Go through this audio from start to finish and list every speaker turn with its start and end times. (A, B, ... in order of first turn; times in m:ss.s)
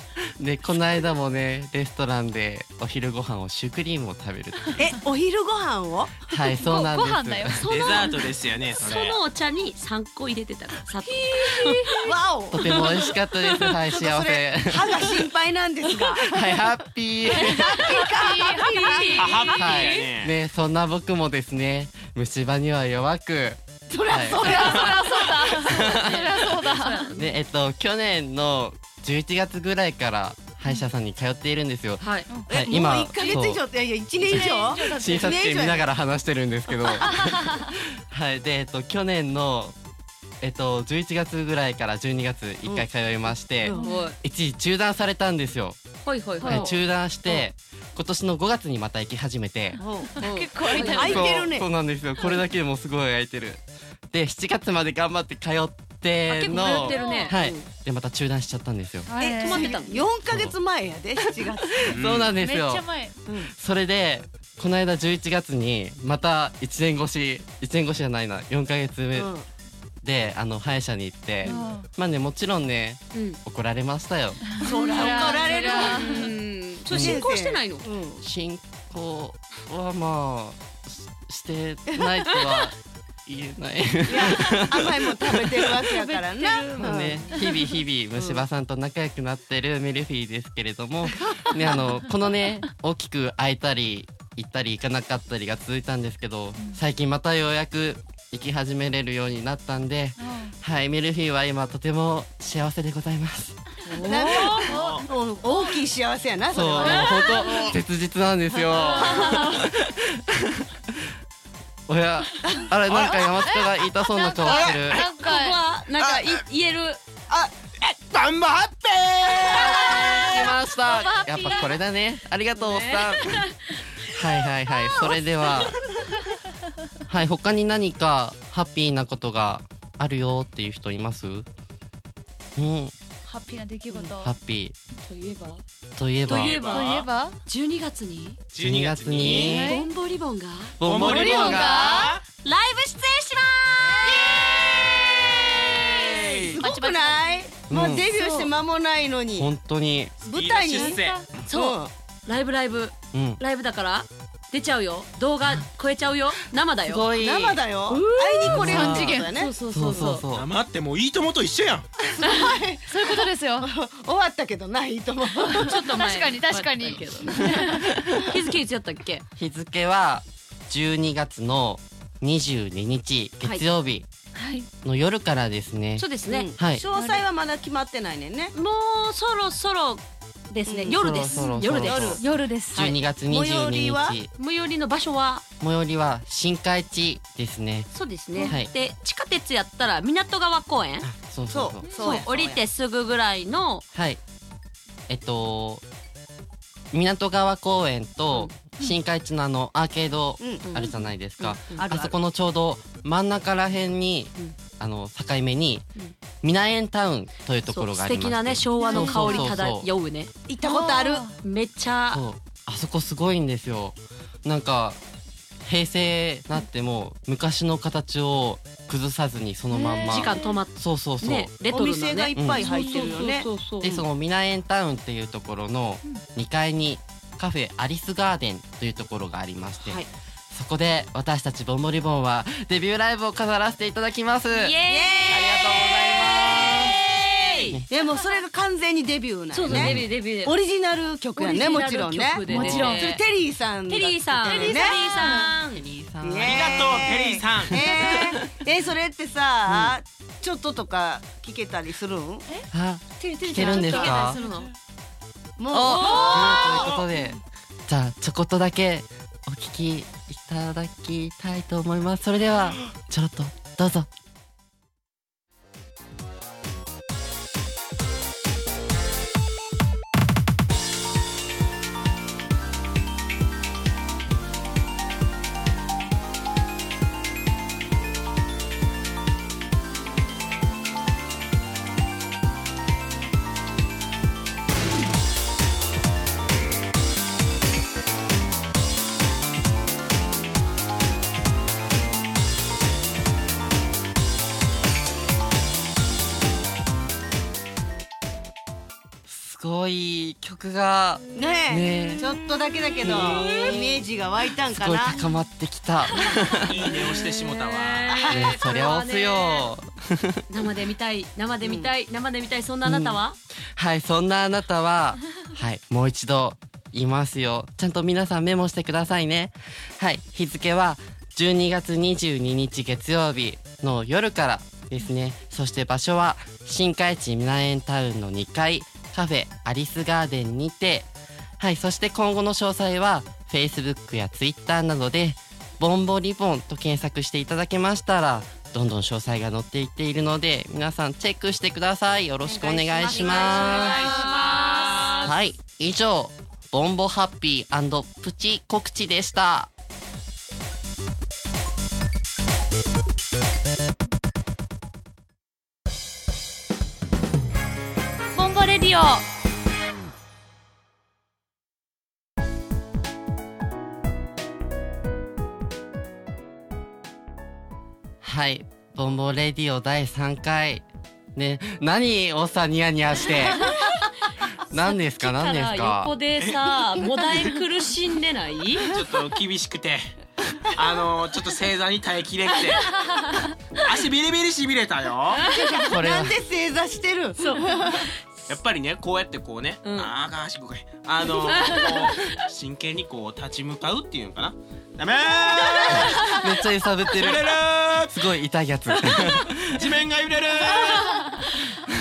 0:00.4-0:04.9 A
0:04.8-0:06.3 B
0:06.3-0:07.6 A
0:06.5-0:08.1 C
0:07.6-0:08.2 D
0:07.7-0:09.2 E
0:08.7-0:13.7 D
0:11.4-0:12.8 B
0:11.6-0:12.0 C
0:12.5-0:15.2 A
0:13.9-0:16.6 B
0:16.1-0:18.0 A
0:17.3-0:19.4 B
0:17.8-0:19.9 C
0:18.7-0:19.9 D
0:19.1-0:20.4 E
0:19.6-0:26.5 A
0:23.9-0:25.3 B
0:24.4-0:27.1 C
0:25.7-0:27.4 D
0:27.2-0:33.6 A
0:32.0-0:32.3 D
0:32.3-0:33.4 C
0:32.5-0:35.8 B
0:34.3-0:39.8 A
0:34.3-0:35.5 C
0:36.8-0:37.7 C
0:40.4-0:45.8 A
0:43.7-0:43.9 B
0:43.7-0:44.2 D
0:43.7-0:44.1 C
0:46.0-0:46.8 D
0:46.4-0:46.8 C
0:46.4-0:49.8 A
0:49.8-0:51.4 C
0:49.8-0:50.2 B
0:50.2-0:51.3 D
0:50.7-0:51.7 B
0:50.9-0:59.1 A
0:56.3-0:57.4 D
0:56.5-0:57.4 C
0:59.1-0:59.8 C
0:59.2-1:02.0 B
0:59.4-1:00.0 D
1:00.3-1:00.6 A
1:01.8-1:09.3 A
1:01.9-1:02.3 E
1:02.3-1:03.2 C
1:03.3-1:03.5 B
1:09.2-1:09.5 B
1:10.0-1:14.5 A
1:11.4-1:11.9 C
1:13.1-1:13.4 D
1:14.5-1:16.3 C
1:14.6-1:16.3 B
1:15.0-1:17.9 D
1:16.9-1:17.2 A
1:16.9-1:18.2 B
1:18.2-1:25.8 A
1:24.1-1:27.2 B
1:26.0-1:27.5 D
1:26.8-1:43.6 A
1:28.2-1:28.5 B
1:31.2-1:31.5 B
1:40.2-1:40.5 C
1:43.9-1:44.6 D
1:44.0-1:47.3 B
1:44.2-1:45.1 E
1:44.7-1:45.1 C
1:46.5-1:51.0 A
1:46.8-1:47.7 C
1:46.8-1:47.8 E
1:48.8-1:49.6 D
1:51.9-1:55.0 A
1:52.9-1:53.7 E
1:54.2-1:57.0 D
1:54.4-1:55.6 C
1:54.4-1:55.1 E
1:56.0-1:56.4 E
1:57.3-2:00.5 E
1:59.5-2:01.8 D
1:59.5-2:03.4 A
1:59.7-2:01.8 C
2:02.5-2:03.8 D
2:04.0-2:05.8 A
2:07.1-2:11.5 A
2:12.6-2:12.9 A
2:13.3-2:14.3 C
2:14.2-2:14.8 A
2:15.0-2:15.6 D
2:16.0-2:16.6 A
2:16.3-2:17.1 E
2:16.3-2:16.9 D
2:16.5-2:17.4 C
2:17.5-2:18.4 D
2:18.5-2:19.7 E
2:18.6-2:19.8 A
2:19.2-2:19.9 C
2:19.4-2:20.8 D
2:20.8-2:22.0 A
2:20.8-2:22.2 E
2:21.0-2:22.2 C
2:22.4-2:24.4 D
2:23.9-2:29.5 B
2:24.2-2:24.5 E
2:25.4-2:26.6 E
2:25.4-2:26.0 D
2:26.6-2:27.6 C
2:27.7-2:28.1 A
2:29.3-2:30.2 A
2:30.2-2:31.2 E
2:30.2-2:31.9 B
2:30.7-2:31.2 C
2:31.5-2:37.1 D
2:33.1-2:33.4 A
2:36.8-2:37.6 A
2:37.2-2:39.5 B
2:37.9-2:40.2 D
2:38.4-2:40.5 A
2:38.6-2:39.3 C
2:40.3-2:41.9 E
2:42.0-2:45.8 B
2:42.9-2:43.7 C
2:45.5-2:49.2 D
2:45.8-2:47.9 C
2:47.6-2:48.1 A
2:49.4-2:54.1 A
2:54.4-2:54.7 C
2:54.8-2:56.9 A
2:56.0-2:56.5 D
2:56.3-2:58.5 B
2:56.9-2:57.2 C
2:58.6-3:03.0 D
3:00.7-3:02.2 B
3:00.9-3:02.2 A
3:02.1-3:02.9 C
3:02.7-3:04.3 A
3:03.3-3:04.2 B
3:04.3-3:05.4 D
3:05.6-3:07.9 A
3:07.9-3:11.1 D
3:08.4-3:08.7 A
3:11.0-3:12.0 A
3:11.5-3:12.6 B
3:11.9-3:12.1 C
3:11.9-3:13.8 D
3:13.9-3:14.2 A
3:15.1-3:15.8 A
3:16.9-3:25.8 A
3:20.4-3:20.6 B
3:20.6-3:22.1 D
3:21.8-3:22.1 B
3:26.4-3:29.9 A
3:27.7-3:30.3 D
3:28.8-3:29.6 C
3:30.5-3:31.3 B
3:30.6-3:31.4 C
3:31.4-3:32.2 D
3:32.1-3:35.0 A
3:35.6-3:41.6 A
3:39.7-3:40.6 C
3:39.9-3:44.0 D
3:41.7-3:44.0 B
3:42.4-3:42.8 A
3:42.8-3:43.2 C
3:43.8-3:54.8 A
3:49.8-3:50.1 D
3:54.5-3:58.3 D
3:54.9-3:57.0 B
3:55.3-3:57.0 A
3:57.9-4:05.0 B
3:59.5-4:00.6 D
3:59.7-4:00.1 A
4:01.4-4:03.2 D
4:02.5-4:03.0 A
4:03.9-4:05.8 D
4:04.4-4:05.5 C
4:05.3-4:07.0 A
4:06.2-4:12.5 B
4:06.4-4:07.9 E
4:07.7-4:08.4 A
4:09.7-4:10.0 A
4:12.7-4:14.4 A
4:13.2-4:14.7 D
4:13.4-4:14.3 B
4:15.6-4:16.9 B
4:15.7-4:24.1 A
4:15.9-4:16.7 D
4:16.3-4:17.1 E
4:59.3-5:02.2 A
5:01.4-5:05.2 B
5:03.0-5:04.0 A
5:03.2-5:03.8 D
5:04.7-5:06.9 A
5:06.2-5:09.7 D
5:06.6-5:08.1 E
5:08.1-5:08.5 B
5:08.3-5:10.4 A
5:10.5-5:13.4 D
5:11.6-5:11.9 B
5:12.8-5:13.2 A
5:13.8-5:44.1 A
5:42.4-5:44.3 B
5:43.0-5:45.3 D
5:43.2-5:45.3 E
5:45.2-5:49.7 A
5:58.4-5:59.1 D
5:58.4-5:59.2 C
6:08.2-6:13.8 A
6:13.6-6:14.0 D
6:14.7-6:16.1 A
6:14.7-6:18.9 D
6:16.4-6:17.6 E
6:18.8-6:22.9 E
6:23.0-6:23.5 C
6:23.7-6:25.4 E
6:25.4-6:25.8 D
6:25.5-6:28.1 B
6:25.9-6:26.4 A
6:27.4-6:28.6 D
6:28.5-6:36.4 E
6:29.8-6:30.1 D
6:31.4-6:32.3 D
6:35.6-6:36.5 D
6:35.9-6:40.0 A
6:37.0-6:38.3 E
6:39.0-6:41.3 E